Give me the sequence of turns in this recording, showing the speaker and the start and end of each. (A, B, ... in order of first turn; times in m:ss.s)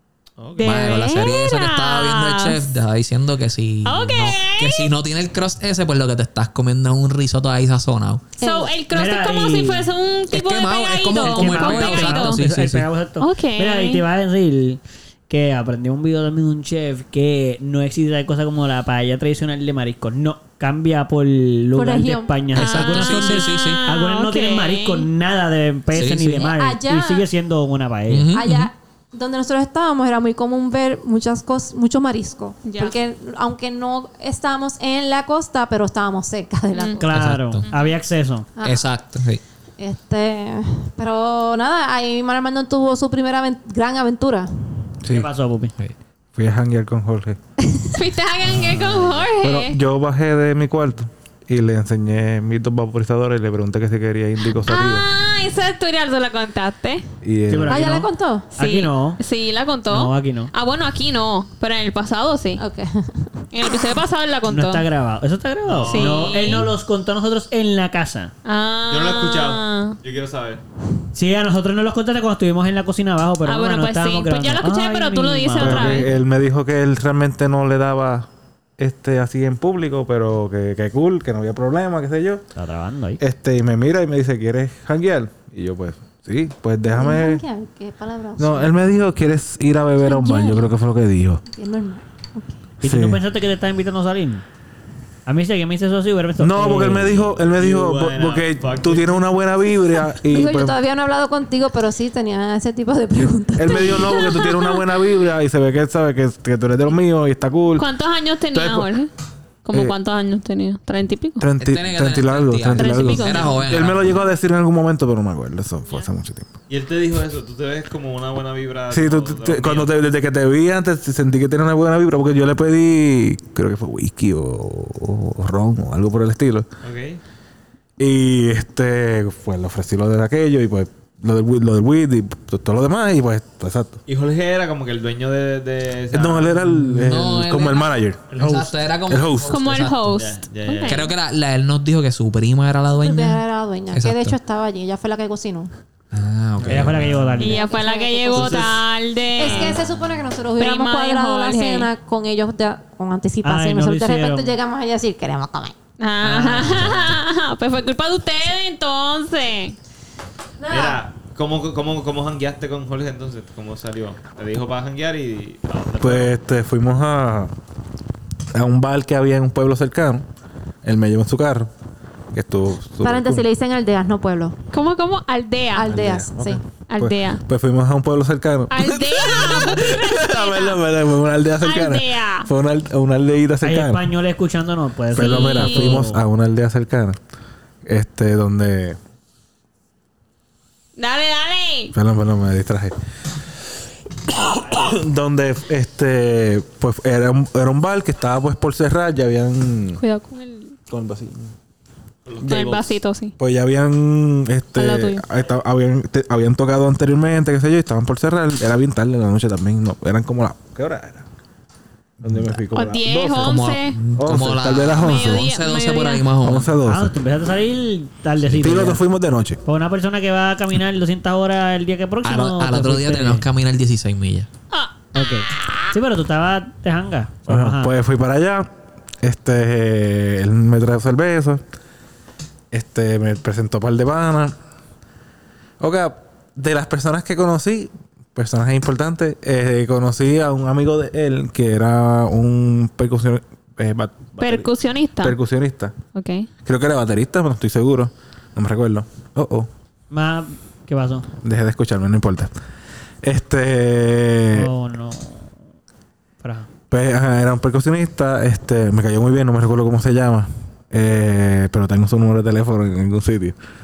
0:00.4-0:00.8 A
0:00.6-0:02.6 B
0:00.6-0:08.3 C
0:03.8-0:04.9 B
0:08.4-0:08.7 D
0:08.4-0:12.4 B
0:08.9-0:09.9 E
0:10.3-0:12.9 C
0:11.2-0:28.3 E
0:13.2-0:14.0 B
0:21.8-0:22.5 D
0:22.5-0:23.8 C
0:22.6-0:25.1 B
0:25.9-0:26.5 C
0:26.4-0:27.3 D
0:28.1-0:28.7 C
0:28.3-0:37.1 D
0:32.7-0:33.0 B
0:36.7-0:37.0 B
0:37.0-0:38.5 E
0:37.1-0:37.7 C
0:38.6-0:38.9 D
0:38.6-0:39.4 C
0:39.8-0:44.5 D
0:45.0-0:45.3 F
0:45.1-0:45.7 E
0:46.4-0:47.4 F
0:47.7-0:47.9 D
0:47.9-0:49.8 B
0:49.4-0:55.1 F
0:54.6-0:57.1 B
0:57.2-0:57.9 F
0:57.5-0:59.2 E
0:57.7-0:58.5 D
0:58.6-1:02.6 B
0:59.9-1:00.5 E
1:02.6-1:03.3 D
1:03.5-1:04.9 B
1:04.5-1:08.3 E
1:05.6-1:06.6 A
1:05.9-1:06.7 B
1:08.4-1:10.0 B
1:08.9-1:10.6 A
1:11.1-1:16.1 E
1:13.4-1:16.1 B
1:15.6-1:22.4 F
1:22.6-1:23.2 E
1:23.2-1:27.4 F
1:26.9-1:28.8 D
1:28.4-1:31.4 F
1:30.0-1:30.6 D
1:31.5-1:32.6 D
1:32.8-1:34.4 E
1:32.8-1:33.2 F
1:35.3-1:37.4 E
1:36.4-1:40.8 F
1:37.5-1:39.3 A
1:40.3-1:44.6 D
1:43.6-1:47.9 F
1:43.8-1:44.8 B
1:47.8-1:49.1 B
1:48.5-1:48.9 F
1:49.6-1:51.5 B
1:51.4-1:56.5 F
1:51.6-1:54.2 C
1:52.8-1:53.7 B
1:56.7-1:59.9 A
1:58.9-2:06.7 F
2:06.8-2:07.2 A
2:08.0-2:14.0 F
2:14.1-2:16.6 A
2:16.1-2:19.6 F
2:16.9-2:20.1 C
2:19.5-2:21.1 B
2:20.1-2:21.2 A
2:20.9-2:24.4 C
2:23.0-2:25.7 D
2:26.1-2:27.4 C
2:26.6-2:27.7 E
2:27.4-2:29.8 B
2:27.4-2:28.7 D
2:28.3-2:28.8 A
2:29.4-2:35.8 D
2:29.4-2:29.8 A
2:30.6-2:31.9 B
2:33.4-2:34.5 E
2:36.0-2:39.8 B
2:36.3-2:37.2 E
2:40.6-2:41.0 D
2:40.7-2:46.4 A
2:46.0-2:47.5 F
2:48.5-2:50.3 F
2:50.8-2:51.7 F
2:52.3-2:53.5 F
2:53.0-2:54.6 D
2:54.7-2:56.0 B
2:55.8-2:56.6 D
2:55.9-3:04.1 F
2:56.9-2:57.4 B
2:58.7-3:00.8 B
3:01.6-3:02.5 B
3:03.6-3:06.2 E
3:05.1-3:07.2 F
3:05.2-3:06.0 B
3:07.9-3:09.0 F
3:11.0-3:11.9 B
3:11.9-3:13.0 F
3:14.3-3:20.0 F
3:20.0-3:20.8 B
3:20.9-3:21.5 F
3:22.3-3:22.8 A
3:22.4-3:23.3 B
3:23.4-3:31.3 F
3:24.8-3:25.2 B
3:32.2-3:33.6 F
3:32.7-3:34.0 B
3:33.4-3:36.7 C
3:34.2-3:35.4 F
3:34.9-3:36.3 B
3:36.4-3:37.2 F
3:36.9-3:39.0 E
3:38.5-3:39.6 F
3:39.6-3:43.5 E
3:42.2-3:44.5 C
3:44.7-3:45.3 B
3:45.1-3:47.9 E
3:47.5-3:48.7 F
3:49.2-3:51.6 F
3:52.7-3:54.6 F
3:55.8-4:05.9 F
4:04.4-4:05.4 B
4:06.2-4:06.5 B
4:06.6-4:09.7 F
4:10.1-4:11.3 E
4:11.4-4:12.5 F
4:13.2-4:14.7 F
4:14.5-4:15.5 E
4:16.4-4:16.7 E
4:16.9-4:23.6 F